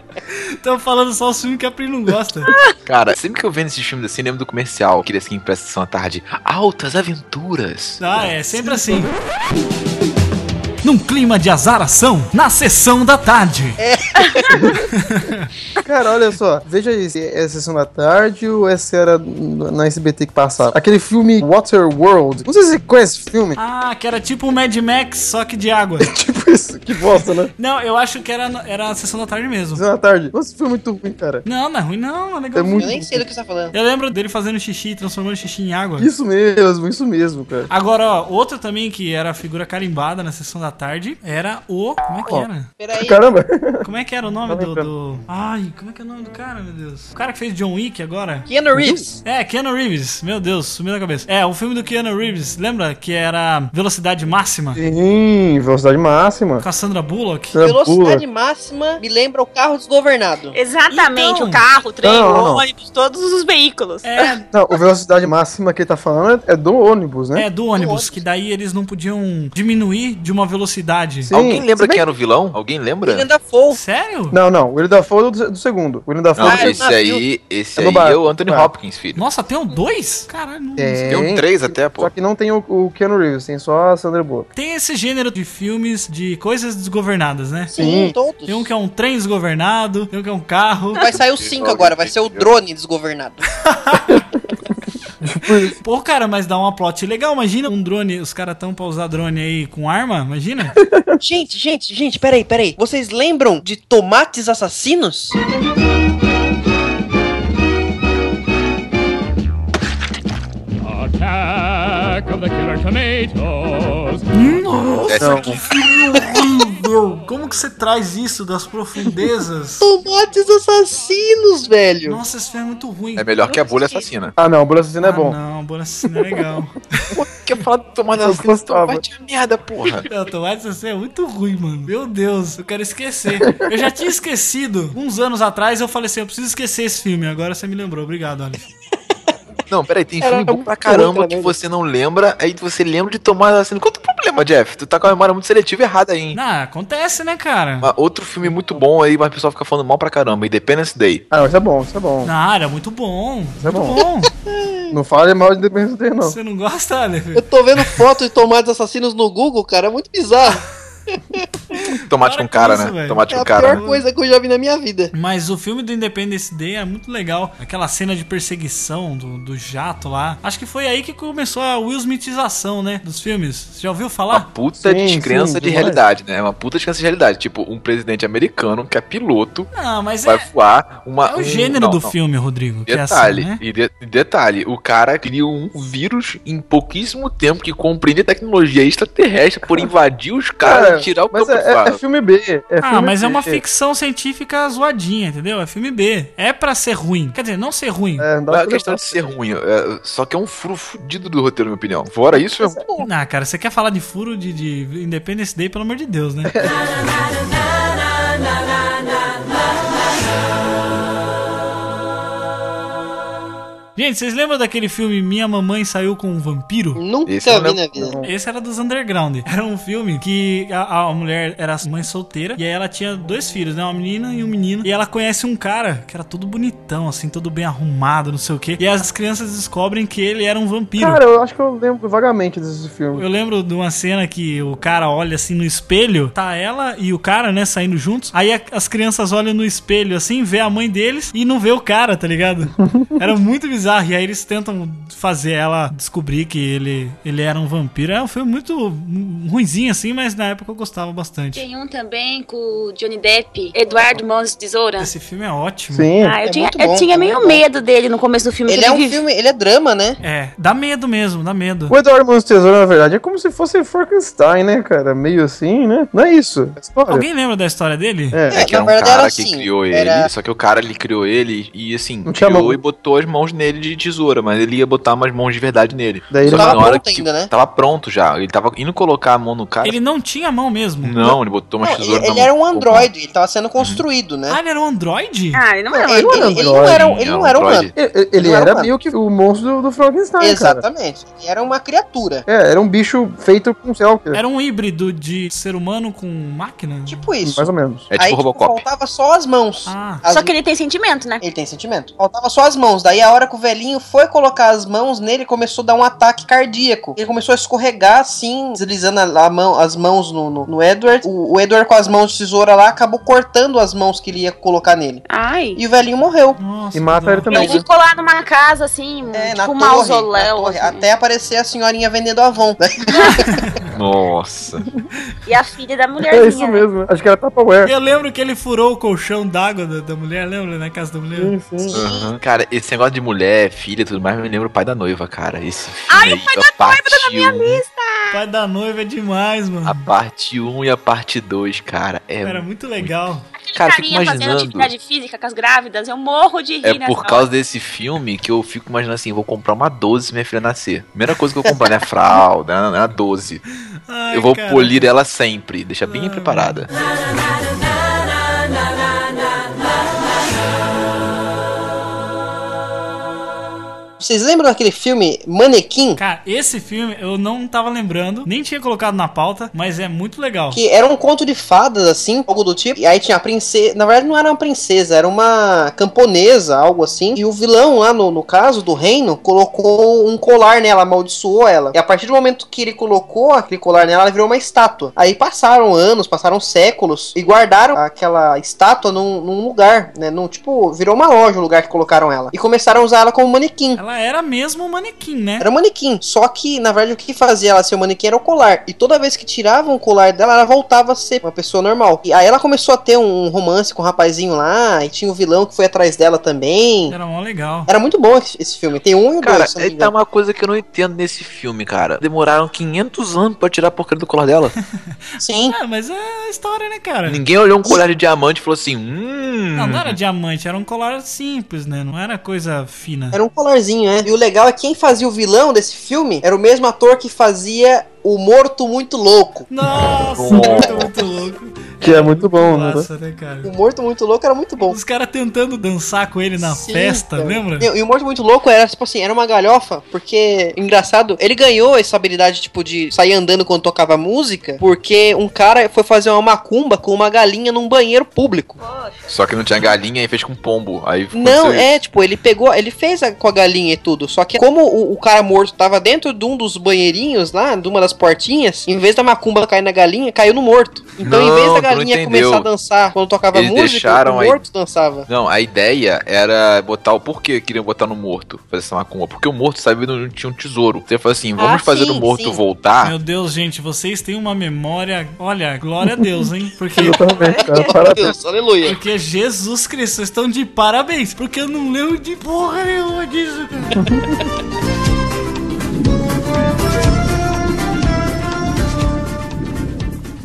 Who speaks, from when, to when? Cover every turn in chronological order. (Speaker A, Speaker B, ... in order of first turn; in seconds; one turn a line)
Speaker A: 0.6-2.5
Speaker B: 2.9-8.0
Speaker A: 8.0-9.1
Speaker C: 8.6-9.0
Speaker A: 10.8-13.8
Speaker D: 13.8-14.7
Speaker A: 14.9-15.5
Speaker C: 15.8-23.6
Speaker A: 23.6-26.1
Speaker C: 26.0-27.5
Speaker A: 27.6-29.8
Speaker C: 29.7-31.4
Speaker A: 31.4-33.0
Speaker C: 32.5-33.2
Speaker D: 32.8-33.7
Speaker A: 33.7-36.1
Speaker C: 36.0-37.7
Speaker A: 37.7-42.7
Speaker C: 42.3-43.9
Speaker D: 42.8-43.2
Speaker A: 43.8-48.5
Speaker C: 44.5-44.9
Speaker D: 48.5-49.2
Speaker C: 48.7-49.0
Speaker A: 49.2-54.8
Speaker C: 54.8-56.6
Speaker A: 56.6-57.5
Speaker C: 57.5-58.2
Speaker D: 57.6-60.5
Speaker E: 60.5-64.3
Speaker A: 60.9-61.6
Speaker C: 62.0-62.6
Speaker A: 64.0-64.5
Speaker C: 64.5-67.5
Speaker A: 67.3-71.3
Speaker D: 67.7-68.2
Speaker C: 71.3-72.0
Speaker B: 71.3-73.3
Speaker D: 73.0-73.8
Speaker A: 73.7-74.4
Speaker C: 74.3-76.8
Speaker B: 76.3-79.2
Speaker D: 76.4-77.2
Speaker C: 77.8-78.7
Speaker A: 79.1-81.2
Speaker C: 80.8-84.5
Speaker B: 81.1-82.1
Speaker A: 84.5-87.7
Speaker D: 87.7-88.7
Speaker C: 87.8-88.1
Speaker A: 88.5-91.0
Speaker D: 91.0-93.5
Speaker B: 91.1-92.5
Speaker A: 93.7-94.2
Speaker C: 95.2-95.8
Speaker A: 95.8-100.8
Speaker C: 100.8-101.2
Speaker D: 101.2-105.4
Speaker A: 114.3-119.8
Speaker B: 115.1-115.5
Speaker C: 115.2-115.6
Speaker D: 119.8-122.2
Speaker A: 122.0-123.3
Speaker B: 123.2-124.3
Speaker E: 123.5-124.0
Speaker C: 124.4-125.4
Speaker A: 125.0-127.1
Speaker B: 127.2-130.1
Speaker C: 128.2-129.0
Speaker A: 130.1-138.6
Speaker B: 139.7-146.4
Speaker D: 140.2-141.5
Speaker A: 146.3-147.9
Speaker B: 147.8-151.2
Speaker C: 151.3-152.3
Speaker A: 152.2-154.3
Speaker C: 153.6-154.0
Speaker D: 154.5-154.9
Speaker C: 154.9-156.4
Speaker A: 156.2-157.9
Speaker D: 157.3-160.6
Speaker A: 161.9-164.0
Speaker B: 162.1-163.8
Speaker D: 163.3-165.1
Speaker A: 165.1-174.5
Speaker B: 174.3-179.7
Speaker C: 174.8-176.0
Speaker A: 179.7-180.4
Speaker B: 180.2-182.1
Speaker A: 181.2-183.6
Speaker B: 182.9-192.0
Speaker C: 190.6-193.6
Speaker A: 192.8-198.2
Speaker C: 198.2-199.2
Speaker B: 198.5-202.8
Speaker A: 203.0-206.6
Speaker A: 213.9-217.0
Speaker D: 216.9-218.2
Speaker B: 217.2-218.0
Speaker C: 218.0-218.3
Speaker A: 218.2-231.2
Speaker C: 231.0-233.2
Speaker A: 233.1-251.6
Speaker E: 251.5-255.1
Speaker A: 255.0-256.1
Speaker C: 255.9-256.3
Speaker E: 256.2-259.2
Speaker D: 256.4-257.6
Speaker D: 258.7-260.2
Speaker A: 260.2-261.9
Speaker C: 261.9-267.2
Speaker A: 267.1-268.4
Speaker C: 268.3-268.6
Speaker D: 268.5-270.3
Speaker B: 268.5-280.0
Speaker C: 272.2-272.8
Speaker C: 276.3-276.9
Speaker D: 276.4-277.5
Speaker A: 279.8-281.2
Speaker B: 281.0-283.1
Speaker D: 281.8-284.6
Speaker B: 283.8-284.0
Speaker A: 284.5-285.6
Speaker E: 285.5-286.6
Speaker C: 285.9-287.1
Speaker D: 286.1-288.9
Speaker B: 286.8-287.9
Speaker C: 287.9-290.8
Speaker D: 290.4-292.4
Speaker C: 292.5-294.4
Speaker A: 294.3-297.2
Speaker D: 297.1-300.5
Speaker C: 297.4-298.1
Speaker B: 298.1-298.8
Speaker A: 299.9-300.2
Speaker E: 300.3-301.4
Speaker D: 301.4-315.2
Speaker E: 315.3-315.8
Speaker D: 315.8-316.6
Speaker A: 316.6-317.7
Speaker C: 316.9-317.8
Speaker E: 317.5-321.1
Speaker D: 319.3-323.7
Speaker E: 323.1-323.4
Speaker B: 323.9-324.9
Speaker E: 325.5-326.9
Speaker C: 326.2-327.9
Speaker A: 327.8-331.5
Speaker C: 331.4-332.0
Speaker D: 331.9-332.3
Speaker B: 331.9-337.8
Speaker E: 336.1-338.3
Speaker A: 338.3-340.1
Speaker B: 339.8-343.1
Speaker A: 342.4-343.4
Speaker E: 343.6-347.5
Speaker B: 343.7-344.9
Speaker B: 346.8-353.6
Speaker A: 354.1-355.1
Speaker B: 354.3-356.9
Speaker A: 356.1-356.9
Speaker D: 364.2-366.2
Speaker A: 366.2-370.8
Speaker D: 370.7-394.0
Speaker A: 394.0-395.7
Speaker D: 395.6-407.1
Speaker A: 407.1-407.9
Speaker D: 407.9-410.1
Speaker B: 409.4-414.7
Speaker D: 415.4-415.7
Speaker A: 415.7-417.4
Speaker B: 417.2-420.1
Speaker A: 419.7-423.4
Speaker D: 423.3-429.7
Speaker A: 429.7-433.7
Speaker B: 430.4-431.1
Speaker C: 430.5-430.8
Speaker C: 432.0-433.1
Speaker D: 433.6-435.0
Speaker A: 434.8-437.9
Speaker D: 436.6-448.8
Speaker E: 448.8-449.2
Speaker B: 449.3-451.9
Speaker D: 451.3-465.3
Speaker B: 461.2-462.7
Speaker B: 463.5-464.6
Speaker B: 465.3-473.1
Speaker D: 471.6-472.6
Speaker A: 473.0-477.2
Speaker C: 476.0-478.4
Speaker D: 477.6-479.0
Speaker A: 478.8-484.1
Speaker C: 484.0-484.4